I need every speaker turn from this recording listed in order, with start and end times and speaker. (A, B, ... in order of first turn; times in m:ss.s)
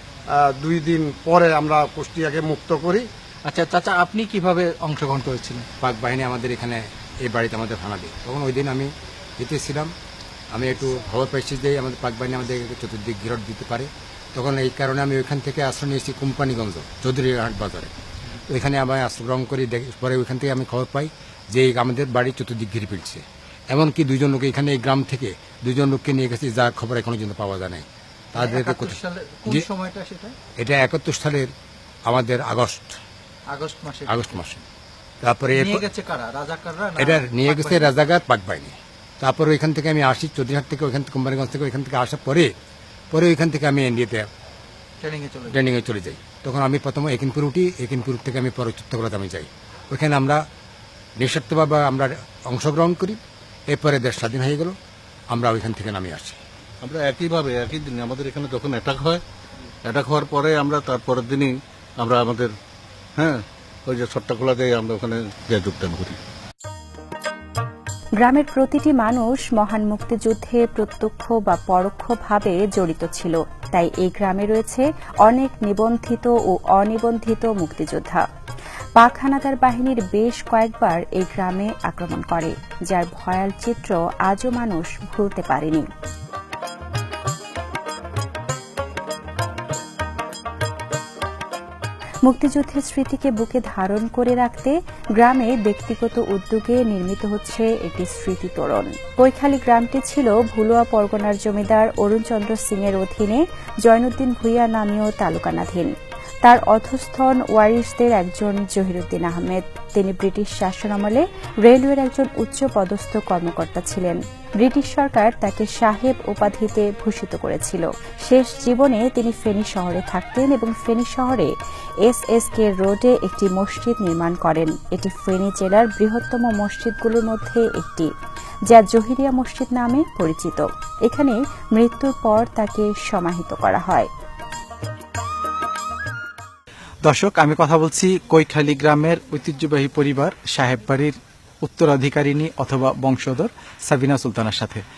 0:00.4-0:03.1 A
0:03.5-0:05.7 B
0:05.8-0:09.9 C
0:10.5-0:17.9 C
0:18.5-0:29.6 C
0:28.4-0:30.3 B
0:30.6-0:31.5 C
0:32.1-0:33.0 C
0:33.5-0:34.2 B
0:34.1-0:34.6 C
0:35.2-0:35.9 C
0:35.5-0:37.9 B
0:37.0-0:42.5 C
0:43.1-0:44.3 C
0:45.0-0:45.6 B
0:45.5-0:50.4 C
0:51.2-0:54.8 C
0:55.3-0:56.4 C
0:56.8-0:59.2 D
0:59.8-1:02.6 D
1:03.2-1:06.2 D
1:08.2-1:18.2 E
1:19.0-1:25.9 E
1:32.2-1:45.9 E
1:46.4-2:01.5 E
2:02.0-2:08.1 E
2:08.7-2:14.1 E
2:17.0-2:24.8 B